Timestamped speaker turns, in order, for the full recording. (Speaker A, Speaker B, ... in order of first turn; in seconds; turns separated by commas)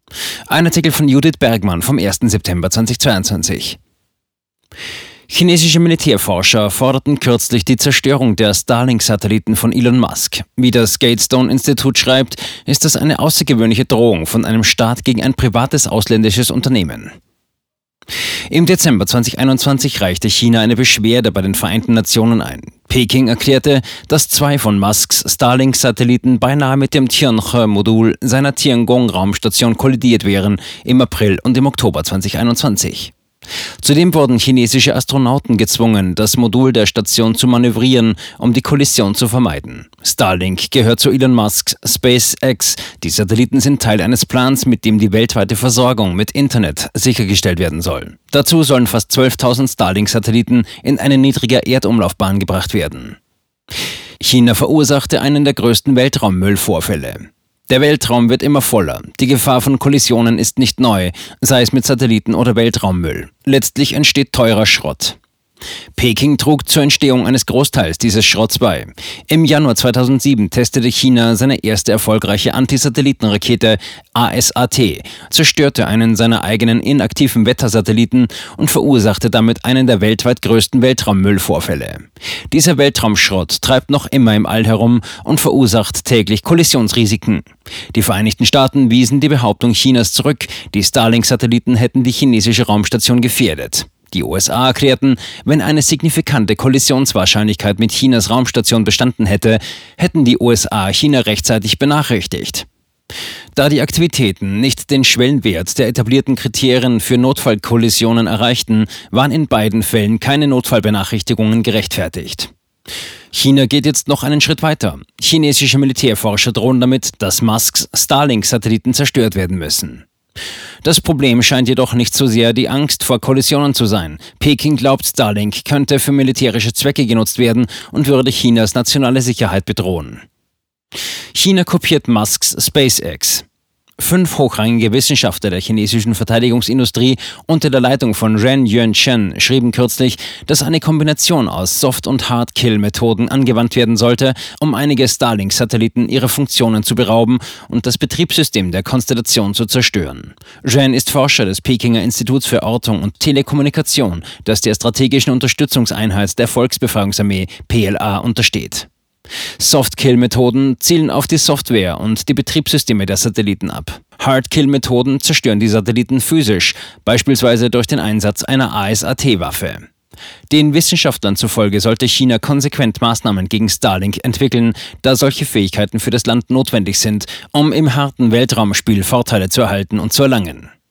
Speaker A: 0.5-3.8, Speaker A: 5.3-17.1, Speaker A: 18.5-33.1, Speaker A: 33.8-53.2, Speaker A: 54.2-65.2, Speaker A: 66.0-102.7, Speaker A: 103.5-112.5, Speaker A: 113.3-120.0, Speaker A: 120.8-130.2, Speaker A: 131.3-133.4, Speaker A: 134.0-158.9, Speaker A: 159.6-169.9, Speaker A: 170.5-180.7